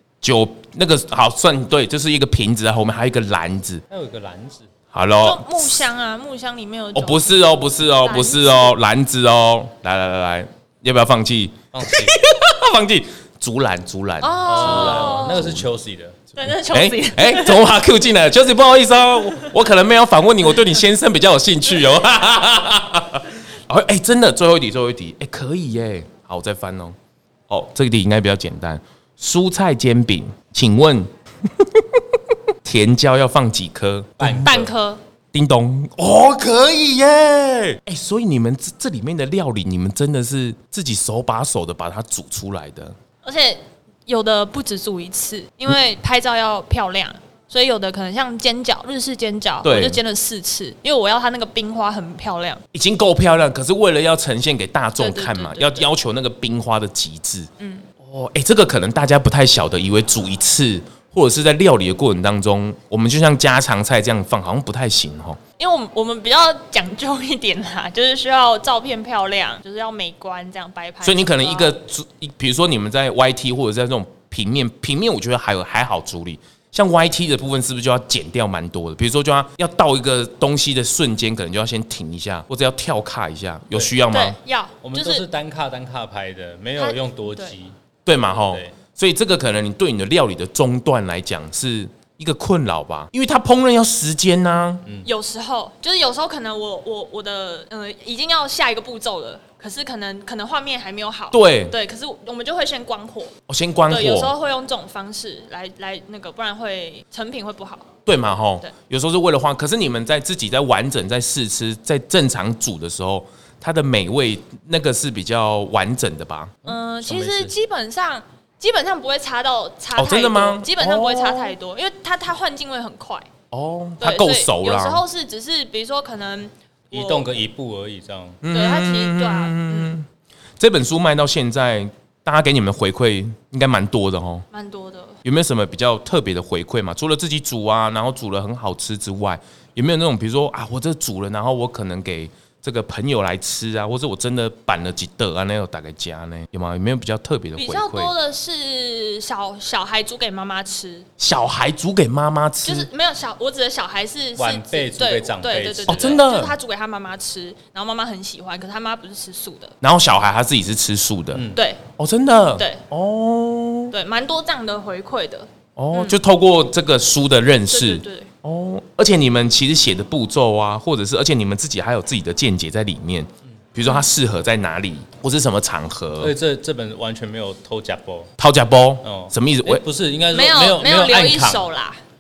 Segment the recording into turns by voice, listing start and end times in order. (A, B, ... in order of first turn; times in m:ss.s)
0:00.2-0:03.8 A
0:03.9-0:04.7 B
0:04.9-0:05.8 A
0:05.2-0:08.7 C
0:07.0-0:15.7 A
0:11.7-0:12.2 B
0:14.2-0:15.4 C
0:14.5-0:16.2 B
0:16.4-0:17.7 C
0:16.6-0:27.0 A
0:27.5-0:32.0 A
0:32.6-0:34.7 A
0:34.2-0:34.7 B
0:34.4-0:35.0 C
0:35.3-0:43.0 A
0:43.2-0:52.6 C
0:49.6-0:50.0 A
0:52.7-0:57.5 A
0:55.0-0:55.9 C
0:57.6-0:57.8 C
0:58.0-1:05.4 A
1:05.6-1:11.8 C
1:11.0-1:24.4 A
1:24.1-1:25.2 C
1:24.8-1:27.8 B
1:26.8-1:27.5 C
1:28.1-1:34.8 A
1:28.4-1:28.8 B
1:35.0-1:43.3 C
1:41.3-1:41.8 A
1:43.5-1:44.3 A
1:43.9-1:47.9 C
1:48.1-1:56.6 A
1:56.6-2:03.3 C
1:56.7-1:57.6 B
2:00.0-2:01.5 A
2:03.5-2:05.0 A
2:04.0-2:07.4 C
2:06.9-2:08.4 B
2:08.4-2:10.1 A
2:08.5-2:09.9 C
2:10.6-2:14.5 A
2:14.5-2:15.2 C
2:15.2-2:28.1 A
2:27.6-2:31.1 C
2:31.2-2:32.9 A
2:32.6-2:39.8 C
2:34.4-2:36.2 B
2:35.9-2:36.5 A
2:39.8-2:41.4 A
2:41.3-2:41.6 B
2:41.6-2:41.8 C
2:42.0-2:43.9 A
2:42.6-2:42.8 C
2:43.9-2:46.2 C
2:45.8-2:56.3 A
2:47.7-2:48.3 C
2:56.2-2:58.3 B
2:58.4-2:59.8 A
2:59.0-3:01.7 B
3:00.3-3:02.0 C